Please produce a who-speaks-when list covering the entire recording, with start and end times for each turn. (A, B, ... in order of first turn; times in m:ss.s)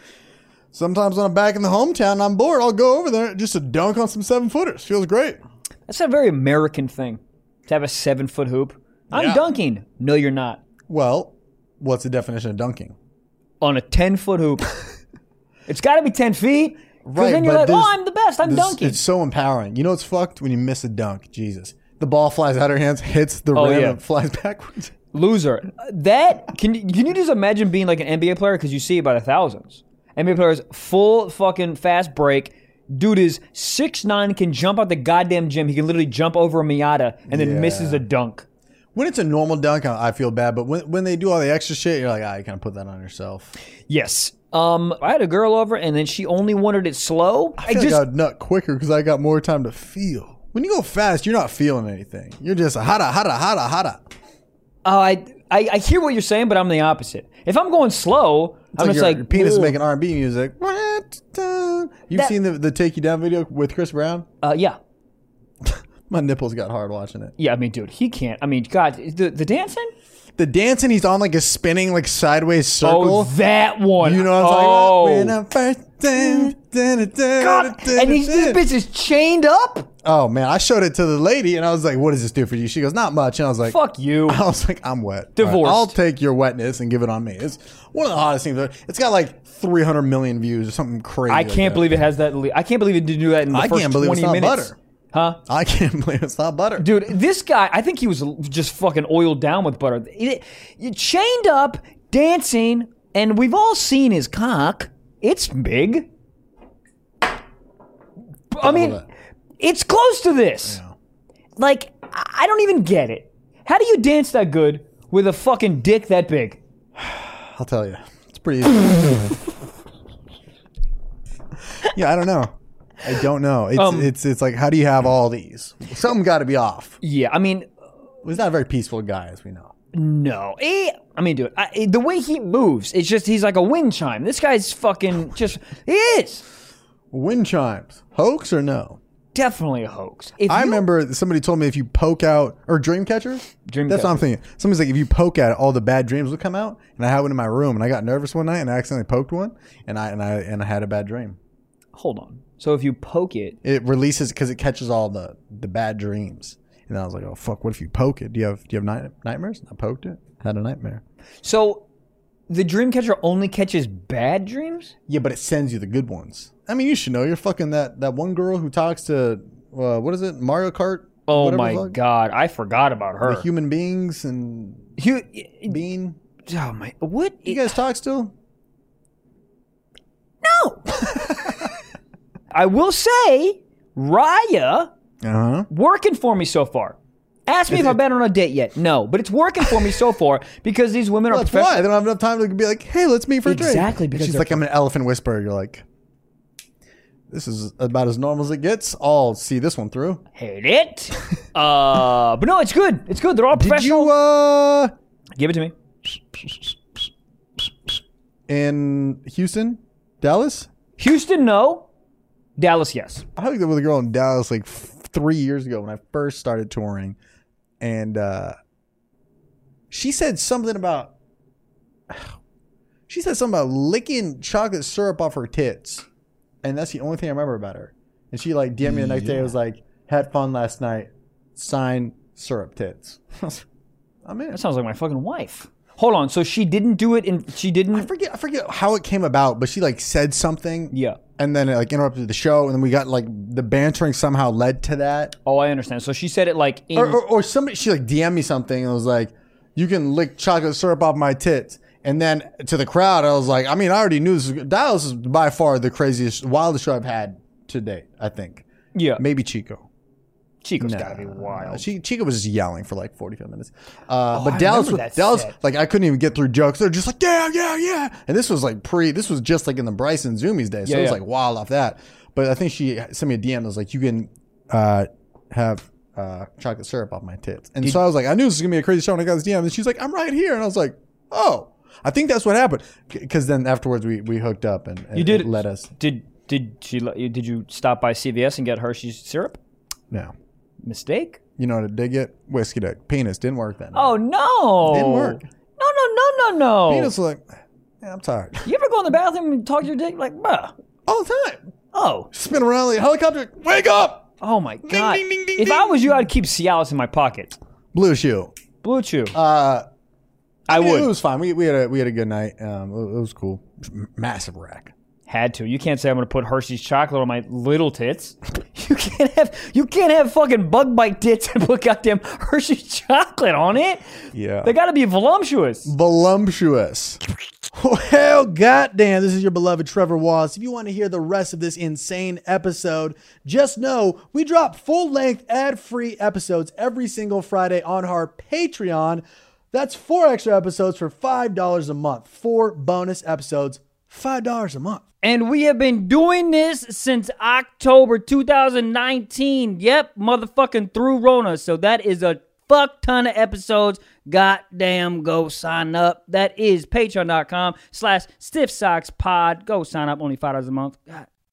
0:00.7-0:05.4 A
0:05.9-0:10.6 B
0:09.1-0:09.5 A
0:10.9-0:13.0 A
0:13.6-0:14.7 B
0:15.7-0:19.0 B
0:17.0-0:24.9 A
0:23.5-0:24.0 B
0:25.1-0:38.5 B
0:37.3-0:38.0 A
0:39.0-0:43.6 A
0:43.9-0:48.0 B
0:47.6-0:54.0 A
0:54.8-0:59.8 B
0:58.7-1:04.2 A
1:04.4-1:04.8 B
1:05.6-1:07.3 A
1:07.4-1:09.9 B
1:10.4-1:13.3 A
1:12.8-1:15.4 B
1:14.0-1:18.6 A
1:16.2-1:16.5 B
1:17.4-1:19.9 B
1:20.0-1:32.0 A
1:23.7-1:24.4 B
1:25.4-1:26.0 B
1:31.3-1:35.4 B
1:33.5-1:34.8 A
1:35.5-1:36.9 A
1:36.8-1:46.1 B
1:48.5-1:49.0 B
1:48.6-1:49.0 A
1:49.6-1:50.8 B
1:50.7-1:50.9 A
1:51.6-1:56.6 B
1:57.0-1:59.4 A
2:01.8-2:07.0 A
2:03.8-2:04.1 B
2:07.0-2:07.7 B
2:08.2-2:09.7 A
2:09.9-2:16.4 B
2:17.1-2:19.0 A
2:19.3-2:20.8 B
2:20.5-2:31.4 A
2:23.6-2:24.2 B
2:31.9-2:33.6 B
2:33.6-2:41.0 A
2:41.4-2:41.8 B
2:42.5-2:44.9 B
2:45.1-2:52.0 A
2:51.3-2:53.5 B
2:53.2-2:54.9 A
2:55.0-2:55.8 B
2:55.7-2:56.2 A
2:56.5-2:57.7 B
2:57.5-2:58.3 A
3:00.4-3:01.7 B
3:02.5-3:04.9 B
3:05.2-3:05.7 A
3:05.7-3:11.8 B
3:07.7-3:08.0 A
3:11.3-3:15.8 A
3:13.4-3:14.6 B
3:17.3-3:20.2 A
3:20.4-3:24.1 B
3:23.5-3:24.9 A
3:25.4-3:25.7 B
3:28.5-3:30.7 A
3:31.0-3:31.9 B
3:32.6-3:33.3 B
3:33.4-3:37.2 A
3:37.8-3:38.6 A
3:39.9-3:41.1 A
3:43.1-3:46.1 A
3:46.6-3:53.6 A
3:48.9-3:49.5 B
3:54.2-3:54.6 A
3:54.5-3:58.1 B
3:57.9-4:05.4 A
4:00.9-4:01.2 B
4:05.5-4:07.2 B
4:07.0-4:18.7 A
4:19.0-4:19.2 B
4:19.2-4:19.8 A
4:20.6-4:21.9 B
4:20.8-4:45.9 A
4:24.3-4:25.6 B
4:30.8-4:31.2 B
4:45.2-4:49.6 B
4:50.8-4:51.4 B
4:51.6-4:54.2 A
4:53.9-4:57.1 B
4:54.8-4:55.5 A
4:56.9-4:57.5 A
4:58.0-4:58.7 A
4:58.6-5:00.7 B
5:01.1-5:01.6 A
5:01.9-5:02.3 B
5:02.3-5:04.3 A
5:04.4-5:07.6 B
5:04.8-5:06.2 A
5:07.9-5:08.5 A
5:08.8-5:09.3 B
5:09.3-5:09.8 A
5:10.7-5:11.1 B
5:10.7-5:14.9 A
5:15.3-5:24.0 B
5:24.3-5:24.8 A
5:24.6-5:25.9 B
5:25.9-5:27.2 A
5:27.7-5:45.0 A
5:45.2-6:01.3 B